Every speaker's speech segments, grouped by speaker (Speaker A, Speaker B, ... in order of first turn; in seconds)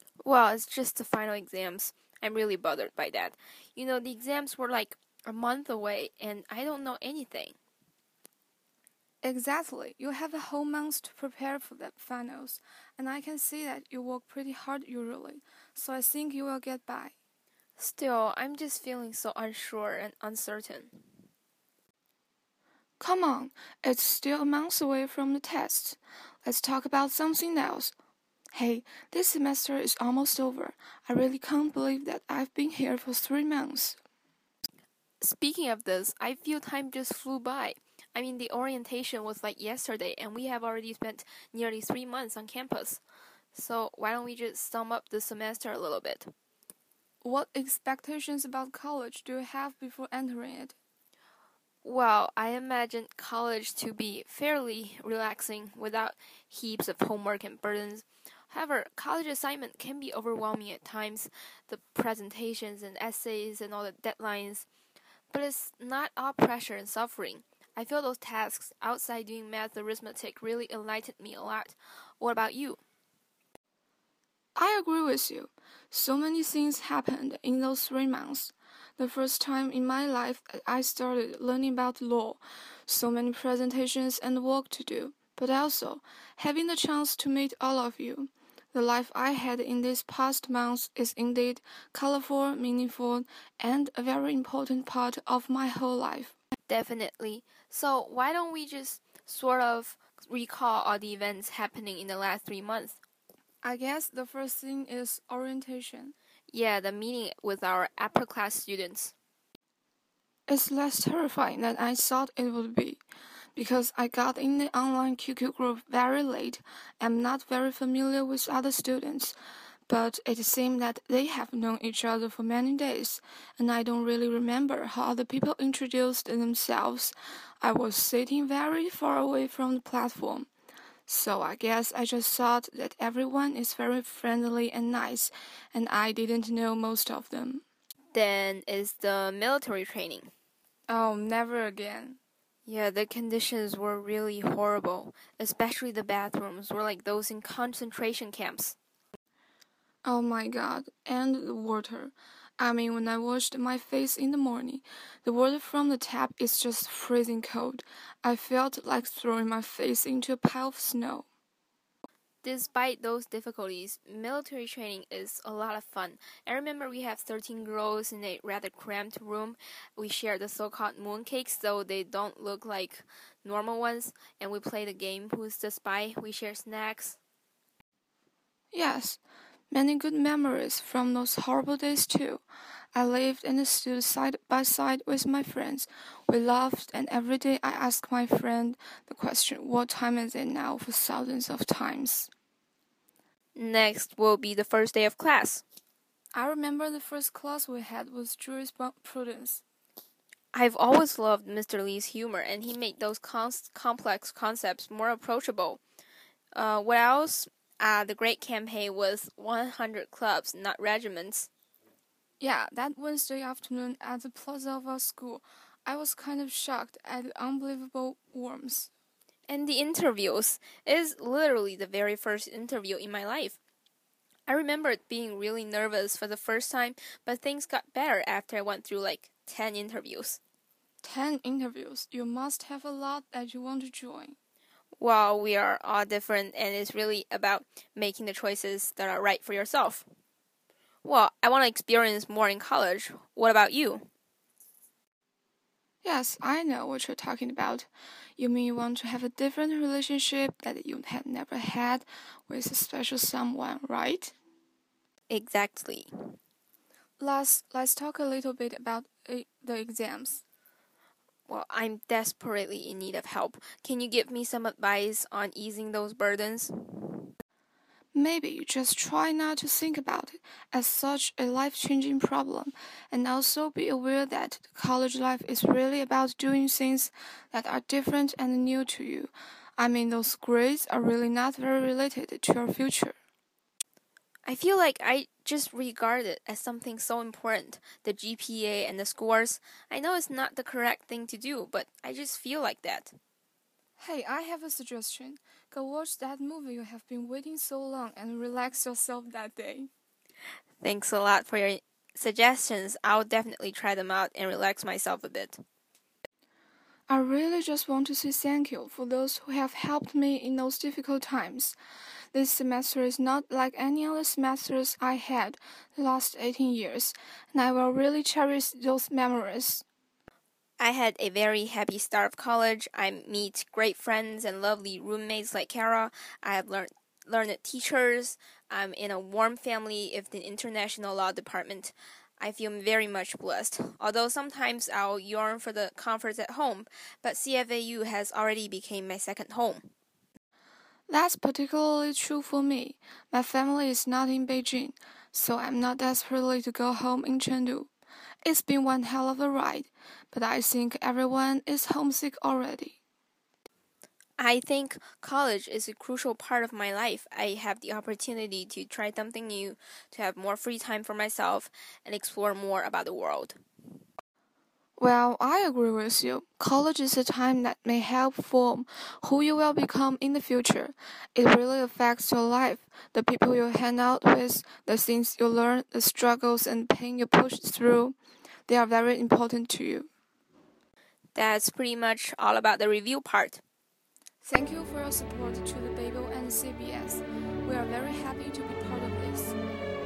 Speaker A: 0.2-7.6, 17.8-21.0, 35.2-43.0, 43.5-46.3, 51.8-64.7, 65.3-72.8, 96.7-103.0, 106.5-109.1, 138.1-140.3, 142.7-148.8, 162.4-177.2, 193.6-195.6, 200.5-205.8, 206.5-211.5, 219.5-223.6, 224.5-230.4, 235.0-240.1, 241.0-244.1, 255.3-256.1, 261.5-267.3, 284.5-293.1, 300.8-305.6, 320.8-339.9, 354.4-363.6, 381.4-383.6
Speaker B: 9.2-17.1, 23.0-27.9, 28.5-34.0, 47.2-50.8, 74.6-96.3, 103.6-106.1, 110.5-113.0, 113.5-119.3, 119.9-130.5, 131.1-137.6, 140.9-142.2, 150.1-161.3, 178.7-179.2, 179.7-182.4, 182.9-192.3, 196.3-199.6, 212.4-218.9, 231.0-234.4, 246.0-254.3, 257.2-260.4, 268.1-283.2, 294.0-299.9, 307.1-311.8, 312.3-319.8, 341.1-347.9, 348.4-353.0, 365.0-378.2, 378.7-380.1, 384.4-389.6